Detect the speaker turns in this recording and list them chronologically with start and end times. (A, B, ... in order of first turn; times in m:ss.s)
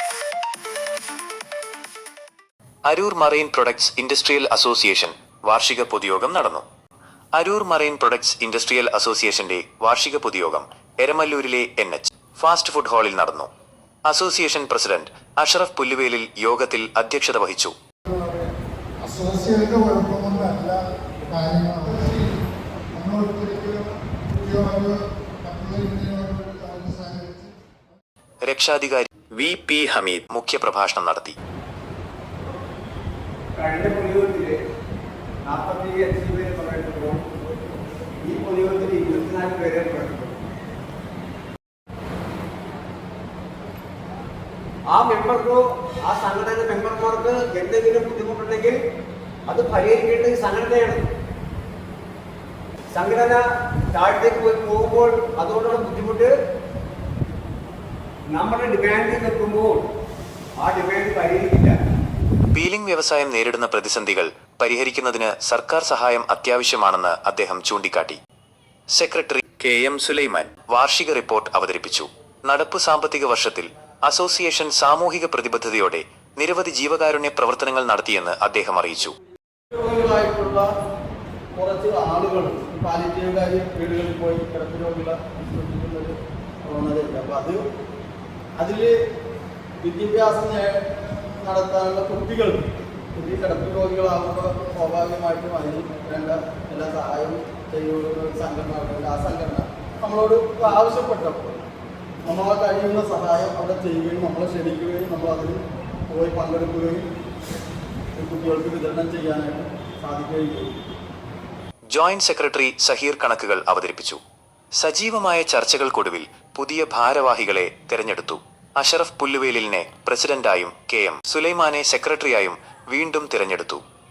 0:02.9-0:06.6 A
0:07.4-0:13.5 A
0:14.1-0:17.7 A
0:18.0-0:22.4 B
0:22.9-0:28.0 B
0:28.4-0:31.3 A
0:33.5-0:34.6 C
0:35.4-0:37.3 C
0:38.2-0:40.5 C
0:44.9-0:48.8 C
0:49.5-0:51.1 C
0:52.9-0:56.3 C
0:58.3-0:59.9 C
1:00.6-1:01.8 C
1:02.5-1:08.2 A
1:08.9-1:19.1 A
1:19.7-1:20.7 D
1:21.5-1:27.6 D
1:28.6-1:29.0 D
1:29.8-1:41.7 D
1:42.2-1:47.0 D
1:48.2-1:50.7 D
1:51.9-1:54.2 A
1:54.8-2:03.8 A